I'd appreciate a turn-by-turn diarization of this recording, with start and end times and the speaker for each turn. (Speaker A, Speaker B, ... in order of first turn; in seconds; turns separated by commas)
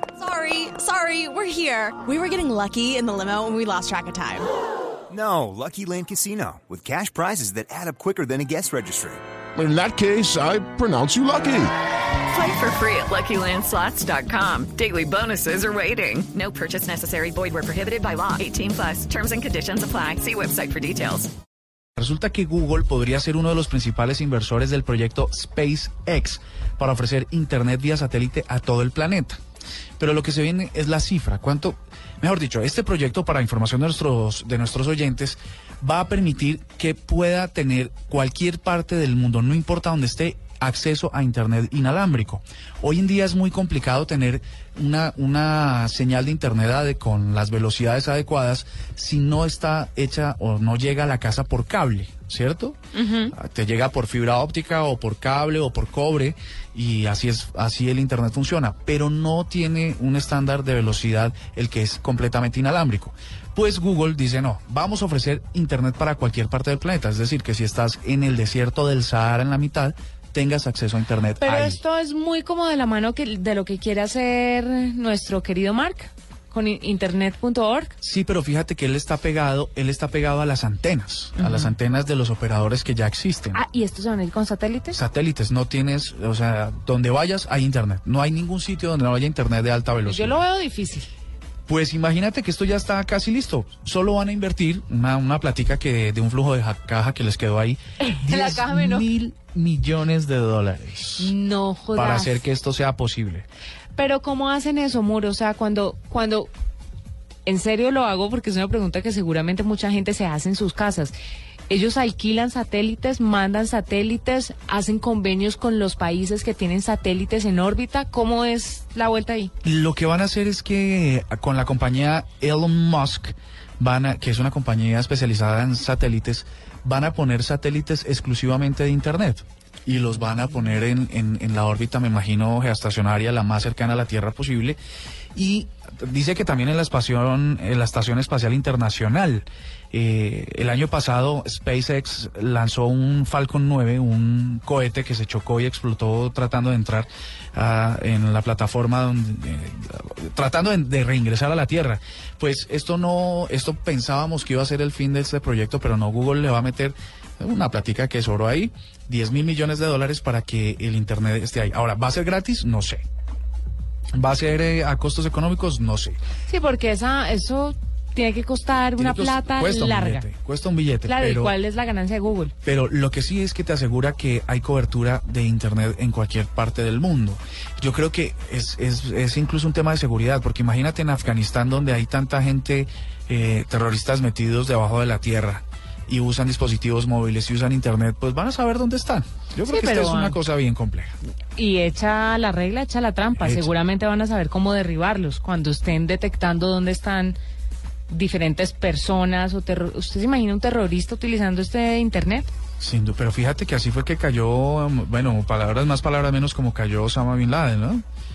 Speaker A: 0.2-4.5, Speaker B: 5.1-9.2, Speaker C: 9.6-11.7, Speaker D: 12.3-21.3, Speaker E: 22.0-29.4, Speaker E: 30.0-52.8, Speaker D: 52.9-53.3, Speaker E: 53.3-71.8, Speaker F: 71.4-77.9, Speaker E: 78.0-83.6, Speaker F: 83.5-84.9, Speaker E: 84.9-90.4, Speaker F: 90.4-91.1, Speaker E: 91.7-101.3, Speaker F: 101.2-102.0, Speaker E: 101.9-103.5, Speaker F: 104.0-106.5, Speaker F: 107.5-111.1, Speaker F: 111.7-119.5, Speaker E: 119.6-134.8, Speaker E: 135.3-163.0, Speaker E: 164.1-166.2, Speaker F: 166.5-170.2, Speaker E: 169.0-171.6, Speaker F: 171.1-172.5, Speaker E: 172.6-191.2, Speaker F: 189.7-190.3, Speaker F: 191.6-197.4, Speaker E: 193.3-193.7, Speaker F: 198.1-202.5, Speaker E: 202.8-208.0